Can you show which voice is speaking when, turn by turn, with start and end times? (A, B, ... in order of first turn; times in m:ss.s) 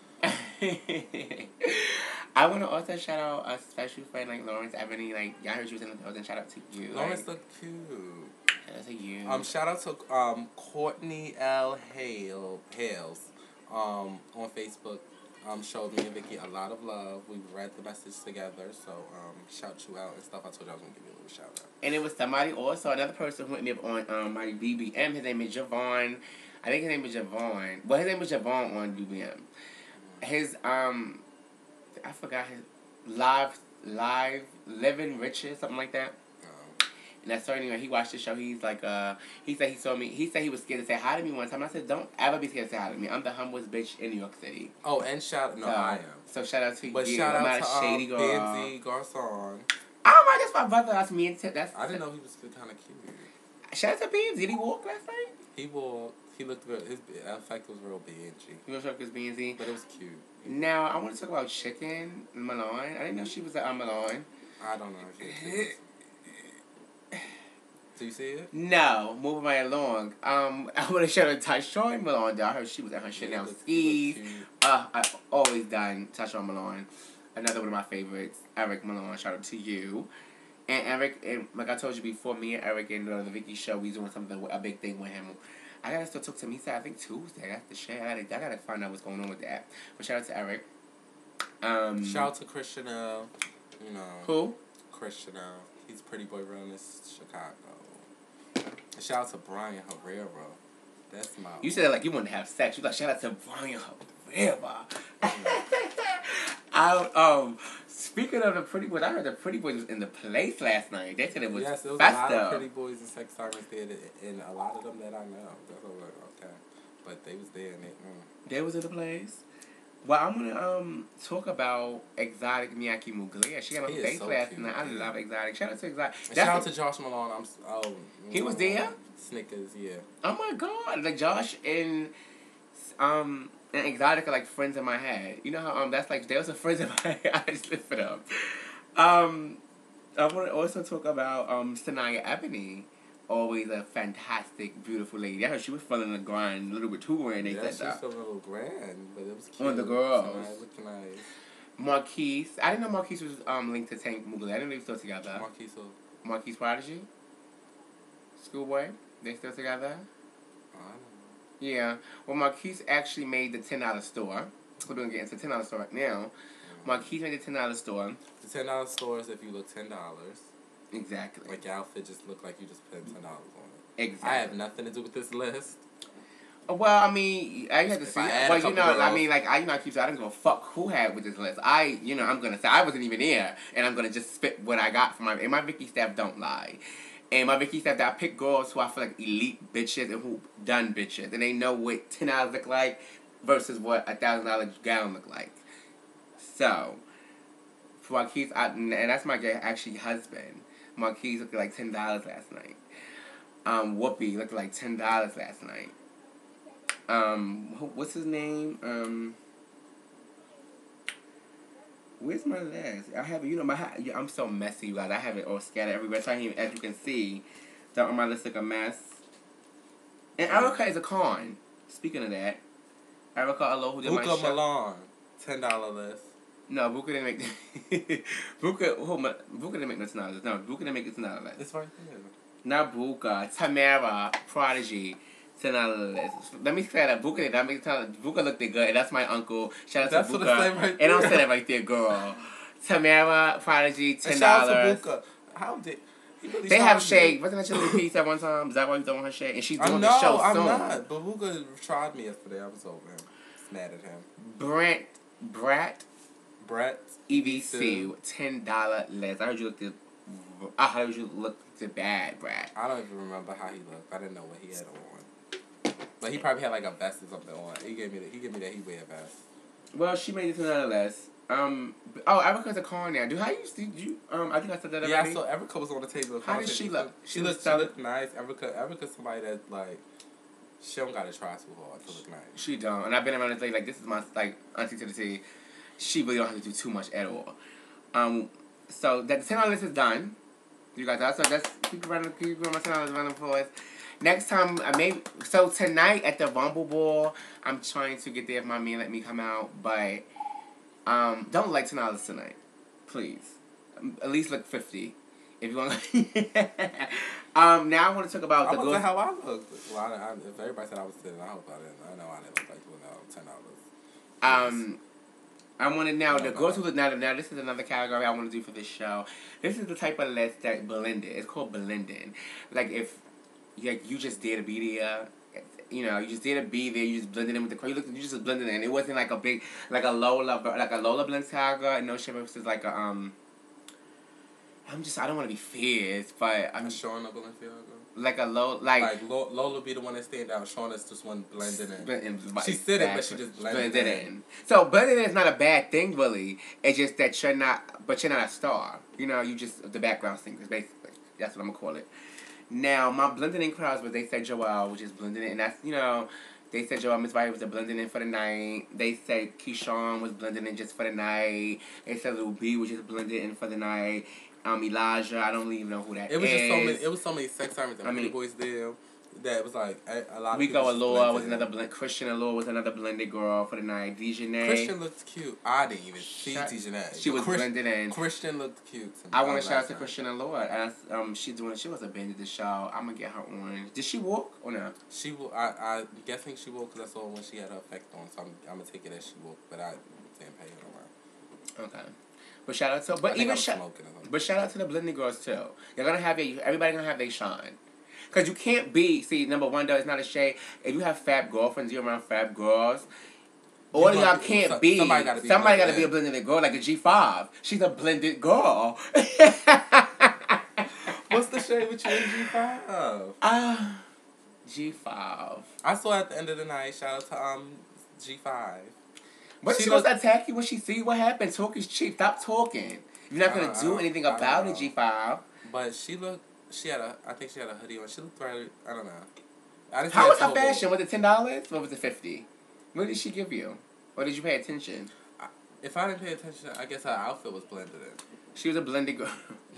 0:00.2-0:07.3 A
0:06.9-0:08.3 B
0:08.6-0:09.5 A
0:09.2-0:21.7 B
0:21.8-0:29.5 A
0:30.0-0:30.2 B
0:30.2-0:31.2 A
0:32.0-0:36.1 A
0:36.4-0:36.8 B
0:37.2-0:44.7 A
0:44.8-0:46.2 B
0:45.6-0:48.7 A
0:46.8-0:49.7 B
0:50.0-0:52.0 A
0:51.7-0:53.3 B
0:53.7-0:55.4 A
0:55.5-0:58.6 B
0:58.6-0:59.6 A
0:59.6-1:00.7 B
1:00.4-1:04.3 A
1:04.6-1:05.8 B
1:05.2-1:05.7 A
1:08.0-1:08.5 B
1:08.5-1:20.1 A
1:13.1-1:14.5 B
1:20.7-1:30.6 A
1:31.6-1:32.3 A
1:32.0-1:34.4 B
1:34.2-1:34.6 A
1:34.9-1:38.1 B
1:38.9-1:40.6 B
1:41.1-1:41.8 B
1:41.6-1:52.6 A
1:45.2-1:45.6 B
1:51.5-1:58.3 B
1:58.4-1:59.4 A
2:00.0-2:06.7 A
2:03.8-2:05.2 B
2:06.3-2:10.0 B
2:08.3-2:08.9 A
2:10.2-2:12.1 A
2:12.7-2:19.6 A
2:20.2-2:28.0 A
2:27.4-2:31.2 B
2:29.6-2:30.6 A
2:31.8-2:35.4 A
2:35.2-2:36.0 B
2:36.2-2:37.1 A
2:38.4-2:40.1 A
2:40.7-2:41.4 B
2:41.6-2:46.3 A
2:46.6-2:47.1 B
2:46.8-2:48.2 A
2:48.4-2:50.5 B
2:50.9-2:51.6 A
2:51.5-2:55.8 B
2:54.0-2:54.5 A
2:56.7-3:15.6 A
2:57.8-2:59.3 B
3:16.4-3:17.0 A
3:18.0-3:22.8 A
3:23.6-3:25.9 A
3:27.1-3:29.4 A
3:32.2-3:39.2 A
3:40.4-3:42.6 A
3:40.4-3:40.8 B
3:43.3-3:44.6 A
3:44.0-3:46.3 B
3:46.7-3:51.6 A
3:51.6-3:52.3 B
3:52.6-4:05.0 A
4:00.0-4:01.5 B
4:04.2-4:08.0 B
4:06.7-4:11.0 A
4:09.8-4:14.3 B
4:14.4-4:16.0 A
4:16.6-4:18.1 B
4:17.3-4:22.7 A
4:22.7-4:25.3 B
4:26.2-4:29.4 B
4:29.9-4:35.4 A
4:35.0-4:40.0 B
4:36.4-4:37.9 A
4:40.8-4:42.6 B
4:42.5-4:45.4 A
4:46.0-4:47.6 A
4:48.1-4:50.4 A
4:50.9-5:00.2 A
5:01.0-5:09.0 A
5:08.6-5:13.8 B
5:14.4-5:15.0 A
5:14.4-5:14.8 B
5:15.8-5:23.2 A
5:16.3-5:16.8 B
5:23.8-5:33.4 A
5:34.8-5:37.0 A
5:36.8-5:38.1 B
5:38.1-5:39.1 A
5:39.0-5:44.3 B
5:41.6-5:52.1 A
5:52.7-6:07.0 A
6:06.3-6:11.7 B
6:08.0-6:08.3 A
6:10.5-6:14.9 A
6:14.6-6:20.1 B
6:16.2-6:18.2 A
6:19.3-6:24.9 A
6:25.1-6:31.1 B
6:31.8-6:32.1 A
6:32.6-6:37.8 A
6:33.2-6:34.6 B
6:38.3-6:43.1 A
6:43.9-6:46.1 B
6:43.9-6:51.1 A
6:50.9-6:53.4 B
6:52.1-6:52.4 A
6:53.4-6:54.1 A
6:54.6-6:55.7 A
6:55.8-6:58.9 B
6:59.6-7:05.4 A
6:59.7-7:00.1 B
7:03.4-7:04.9 B
7:05.6-7:09.3 B
7:09.9-7:10.9 B
7:10.1-7:15.1 A
7:15.4-7:18.2 B
7:18.5-7:19.6 A